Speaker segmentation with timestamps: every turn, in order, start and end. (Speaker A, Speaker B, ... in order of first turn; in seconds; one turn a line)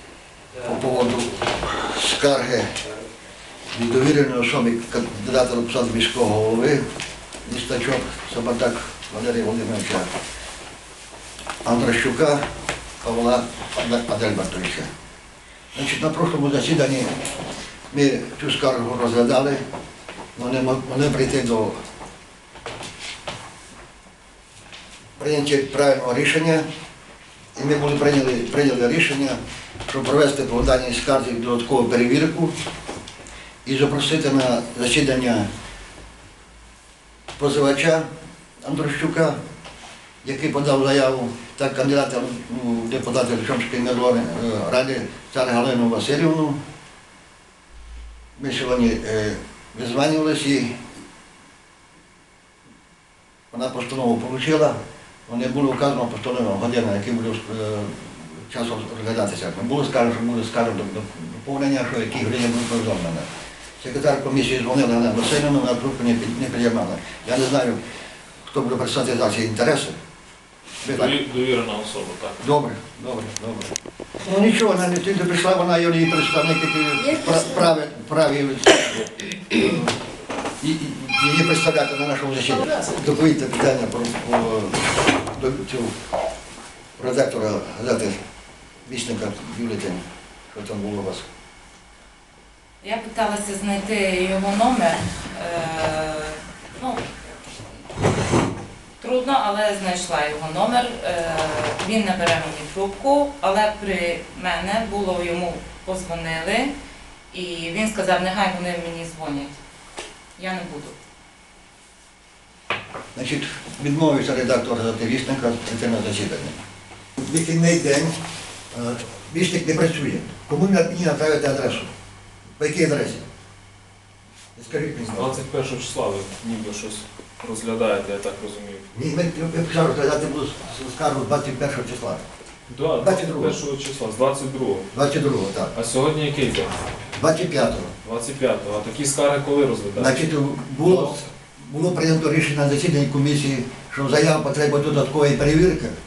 Speaker A: 0.6-2.6
Speaker A: 3.7-6.8
Speaker A: 7.4-10.1
Speaker A: 11.6-12.4
Speaker A: 13.0-14.9
Speaker A: 15.7-17.1
Speaker A: 17.9-19.6
Speaker A: 20.4-21.8
Speaker A: 25.2-26.6
Speaker A: 27.6-32.5
Speaker A: 33.6-35.5
Speaker A: 37.4-38.0
Speaker A: 38.6-39.3
Speaker A: 40.2-46.6
Speaker A: 48.4-50.7
Speaker A: 53.5-63.2
Speaker A: 63.8-67.8
Speaker A: 68.5-69.9
Speaker A: 70.8-71.1
Speaker B: 70.9-72.4
Speaker A: 72.4-73.7
Speaker A: 74.2-79.9
Speaker A: 80.6-85.9
Speaker A: 87.0-88.1
Speaker A: 88.8-90.0
Speaker A: 90.5-91.2
Speaker C: 92.8-97.0
Speaker C: 99.0-106.7
Speaker C: 107.3-109.5
Speaker C: 110.4-110.9
Speaker A: 113.1-116.5
Speaker A: 117.2-118.1
Speaker A: 118.7-121.9
Speaker A: 122.6-123.2
Speaker A: 124.5-125.4
Speaker B: 124.8-128.9
Speaker A: 128.9-132.2
Speaker B: 132.7-134.9
Speaker A: 133.0-133.6
Speaker A: 134.9-135.7
Speaker B: 135.7-136.7
Speaker A: 137.2-137.9
Speaker B: 138.0-140.3
Speaker A: 139.9-145.9
Speaker B: 140.8-141.2